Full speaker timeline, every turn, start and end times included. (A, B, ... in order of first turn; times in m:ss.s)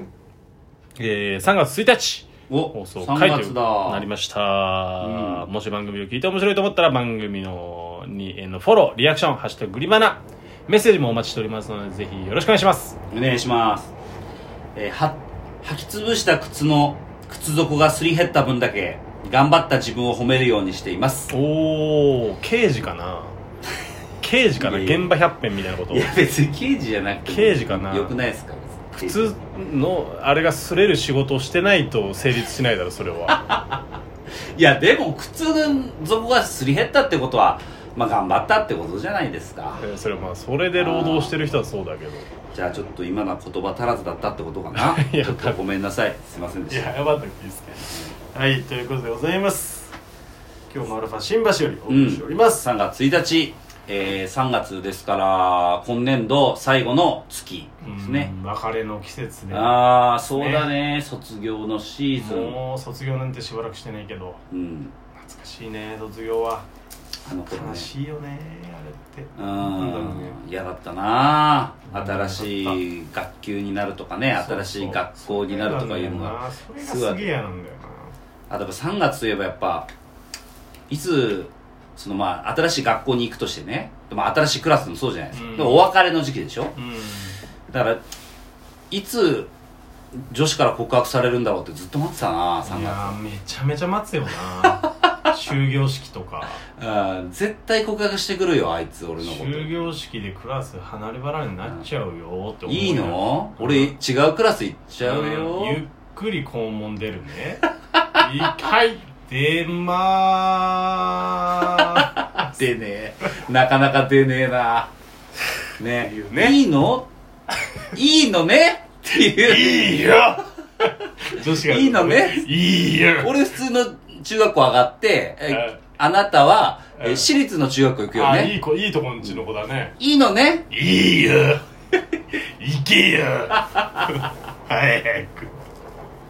0:01.0-0:13.0 A
0:02.5-0:04.1 B
0:05.0-0:05.5 B
0:13.1-0:13.9 B
0:14.7-0:21.3 B
0:21.3-0:23.4 A
0:24.2-0:26.1 A
0:24.6-0:25.1 B
0:25.9-0:29.3 B
0:27.3-0:28.2 A
0:28.9-0:33.4 A
0:33.3-0:34.0 B
0:34.5-0:39.8 B
0:39.8-0:42.3 A
0:40.7-0:41.5 B
0:42.5-0:46.9 B
0:44.7-0:45.6 A
0:46.7-0:49.9 A
0:50.7-0:52.6 A
0:51.9-0:58.3 B
0:57.8-0:59.8 A
0:59.5-1:02.6 B
1:00.3-1:00.7 A
1:02.2-1:04.4 A
1:04.5-1:04.9 B
1:05.1-1:06.6 A
1:07.2-1:07.9 B
1:07.5-1:10.4 A
1:09.4-1:17.3 B
1:11.9-1:12.8 A
1:14.3-1:18.1 A
1:18.5-1:19.9 B
1:20.9-1:26.7 B
1:25.3-1:25.9 A
1:26.7-1:27.4 A
1:27.7-1:28.0 B
1:28.9-1:29.5 B
1:30.3-1:33.2 B
1:32.6-1:36.6 A
1:34.6-1:35.1 B
1:36.8-1:39.7 B
1:39.2-1:43.9 A
1:42.7-1:45.8 B
1:45.0-1:47.6 A
1:48.2-1:52.2 A
1:51.8-1:54.9 B
1:55.8-1:57.1 B
1:56.0-1:56.6 A
1:57.9-2:00.2 B
1:59.4-2:03.4 A
2:01.4-2:02.5 B
2:03.2-2:08.5 B
2:05.5-2:05.8 A
2:07.0-2:07.3 A
2:08.1-2:10.0 A
2:10.0-2:10.7 B
2:10.7-2:15.5 A
2:13.7-2:14.0 B